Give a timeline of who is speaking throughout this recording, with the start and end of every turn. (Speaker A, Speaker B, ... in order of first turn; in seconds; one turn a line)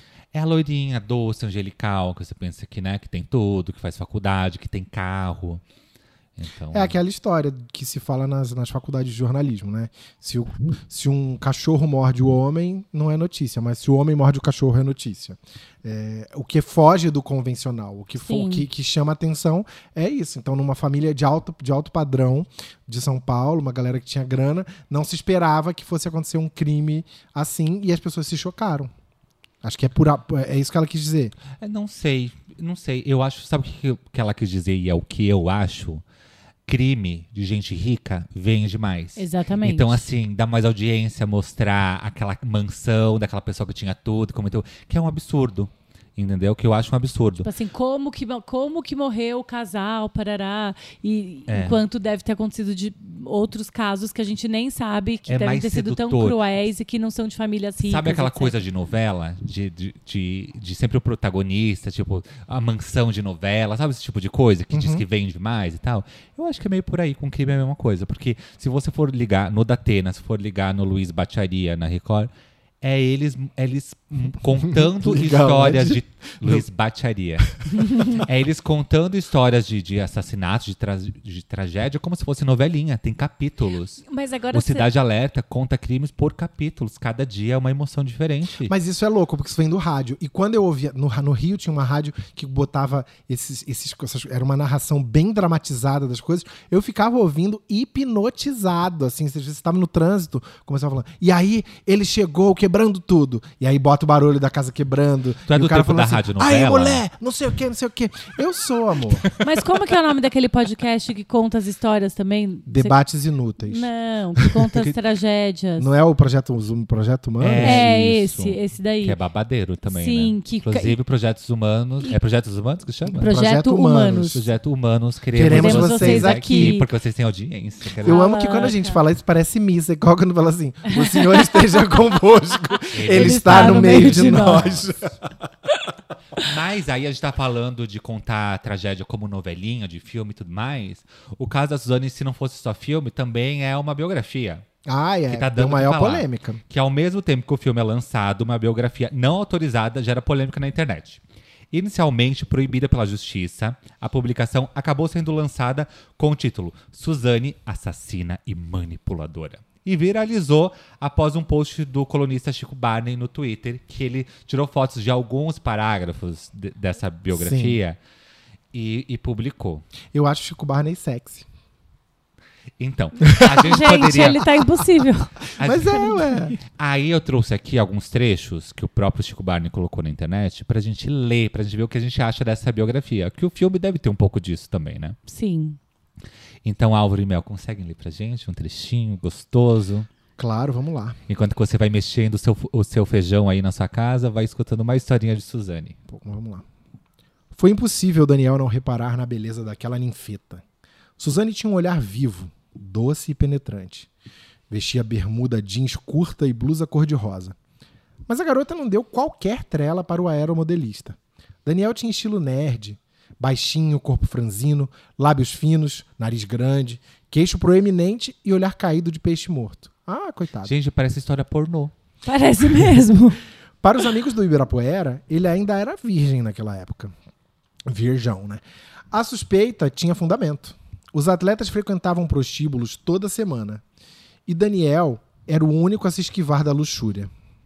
Speaker A: 0.3-5.6
Speaker A: 6.4-6.9
Speaker B: 6.7-28.9
Speaker C: 18.2-18.6
Speaker B: 29.6-31.3
Speaker A: 31.5-36.0
Speaker A: 36.7-47.5
Speaker C: 39.2-40.0
Speaker C: 47.4-58.6
Speaker A: 51.5-51.8
Speaker A: 55.3-56.4
Speaker A: 57.8-72.3
Speaker B: 64.7-65.0
Speaker A: 72.8-88.7
Speaker B: 74.8-76.6
Speaker C: 84.0-84.9
Speaker B: 88.7-109.3
Speaker A: 105.5-107.0
Speaker C: 109.4-113.0
Speaker B: 112.7-113.9
Speaker C: 113.6-115.9
Speaker B: 115.8-117.9
Speaker A: 117.4-123.3
Speaker C: 117.6-119.2
Speaker C: 119.9-121.0
Speaker B: 123.0-124.4
Speaker C: 123.2-124.4
Speaker A: 124.3-128.3
Speaker B: 125.3-126.8
Speaker C: 125.5-126.9
Speaker B: 128.0-135.1
Speaker C: 128.0-129.0
Speaker C: 130.9-131.6
Speaker A: 132.9-134.9
Speaker C: 133.1-134.7
Speaker A: 136.4-144.6
Speaker B: 144.8-146.6
Speaker A: 145.3-168.0
Speaker B: 167.3-167.8
Speaker A: 168.7-169.8
Speaker B: 170.1-171.4
Speaker A: 172.8-174.4
Speaker C: 173.5-176.4
Speaker A: 175.6-185.2
Speaker B: 175.6-176.5
Speaker C: 185.3-185.8
Speaker A: 186.6-190.1
Speaker B: 190.4-191.2
Speaker A: 191.3-196.0
Speaker B: 196.1-196.6
Speaker B: 197.5-200.6
Speaker B: 201.2-204.1
Speaker B: 204.7-207.5
Speaker B: 208.3-220.7
Speaker A: 220.6-221.9
Speaker C: 222.2-223.4
Speaker B: 223.8-227.1
Speaker B: 227.9-233.8
Speaker B: 234.5-237.3